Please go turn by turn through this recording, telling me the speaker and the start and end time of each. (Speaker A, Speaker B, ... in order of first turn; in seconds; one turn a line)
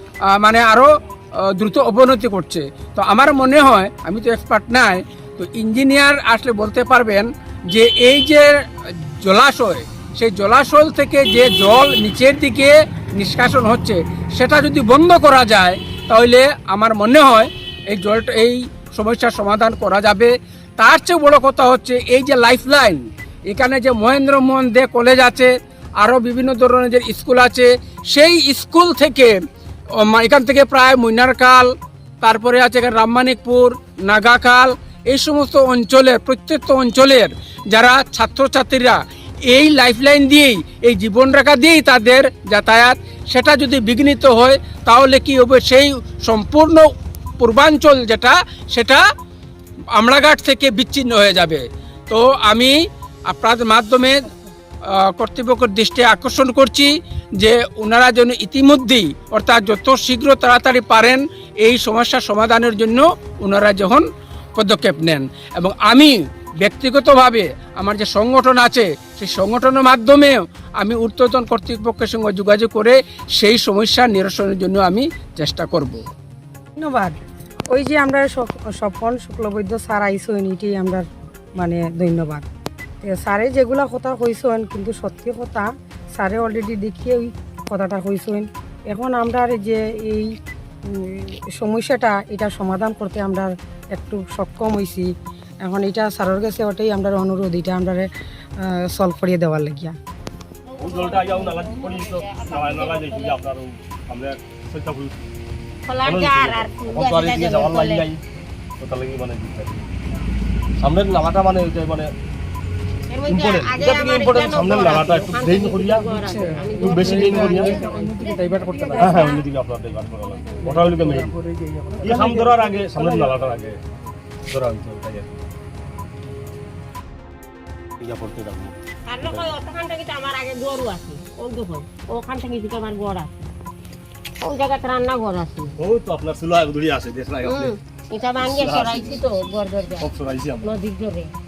Speaker A: 0.3-29.4
Speaker A: 30.0-49.0
Speaker A: 50.0-52.8
Speaker A: 53.3-54.3
Speaker A: 54.9-76.0
Speaker B: 76.8-77.2
Speaker B: 77.7-81.0
Speaker B: 81.6-82.5
Speaker B: 83.0-90.3
Speaker B: 91.0-95.1
Speaker B: 95.6-98.1
Speaker B: 98.6-100.0
Speaker C: 100.8-105.2
Speaker D: 100.8-103.4
Speaker D: 105.9-108.1
Speaker C: 106.0-108.2
Speaker C: 108.8-109.8
Speaker C: 110.8-112.1
Speaker D: 113.1-118.2
Speaker C: 113.3-116.1
Speaker A: 116.1-119.4
Speaker C: 116.7-117.8
Speaker C: 119.0-121.3
Speaker A: 120.5-123.3
Speaker C: 122.0-123.8
Speaker C: 124.5-125.4
Speaker C: 128.0-129.6
Speaker D: 129.1-133.4
Speaker D: 134.4-135.7
Speaker C: 135.8-137.8
Speaker D: 137.5-140.1
Speaker C: 138.4-139.4
Speaker C: 139.9-140.8
Speaker D: 140.6-141.3